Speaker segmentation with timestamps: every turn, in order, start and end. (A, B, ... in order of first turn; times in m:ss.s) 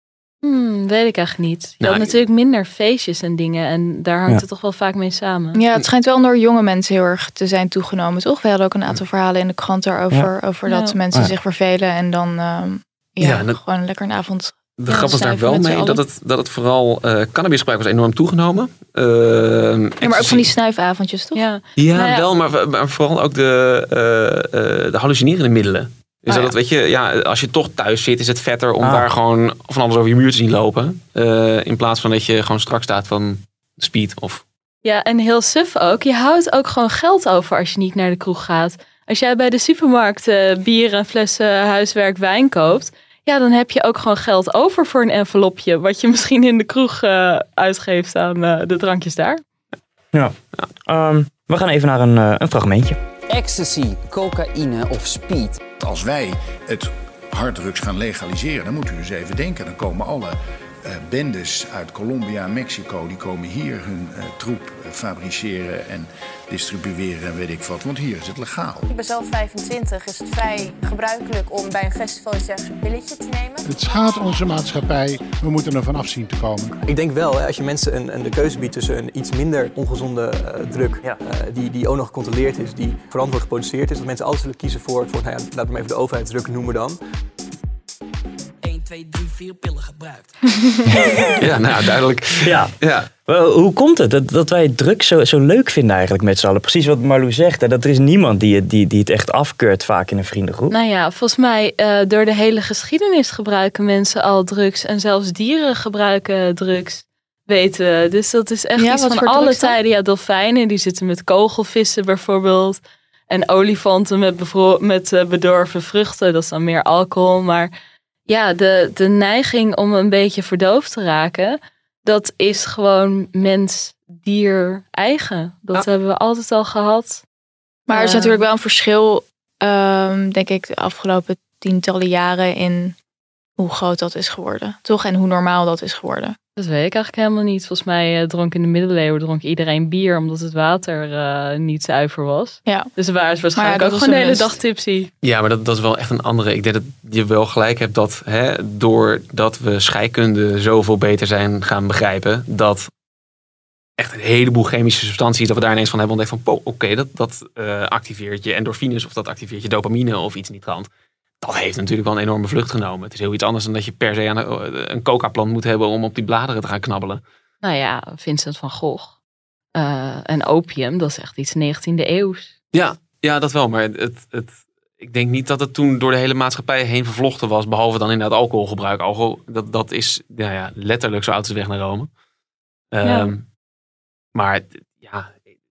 0:00.4-0:05.6 A
0:01.8-0:02.1 B
0:05.6-0:16.0 C
0:10.7-0:11.0 A
0:13.2-0:13.6 B
0:14.8-0:20.5 B
0:14.9-0:15.1 A
0:20.0-0:21.4 C
0:21.4-0:22.3 A
0:21.8-0:34.4 B
0:28.8-0:29.1 D
0:34.8-0:49.4 A
0:50.9-0:53.0 D
0:53.3-0:55.6 E
0:55.8-1:08.9 F
1:08.9-1:13.7 G
1:13.6-1:16.8 H
1:16.8-1:27.0 I
1:29.4-1:30.3 I
1:30.9-1:31.5 D
1:31.4-1:33.1 B
1:32.4-1:32.7 D
1:33.3-1:40.8 D
1:40.7-1:57.7 A
1:48.8-1:49.8 C
1:58.3-2:07.2 A
2:07.9-2:13.0 C
2:07.9-2:08.4 A
2:13.6-2:16.4 C
2:16.6-2:25.1 A
2:23.6-2:24.5 C
2:25.2-2:32.9 B
2:34.0-2:40.9 B
2:41.4-2:47.2 B
2:47.6-2:49.1 A
2:49.8-2:52.5 A
2:52.7-3:02.1 B
3:02.9-3:03.4 B
3:03.0-3:03.3 A
3:04.4-3:05.4 B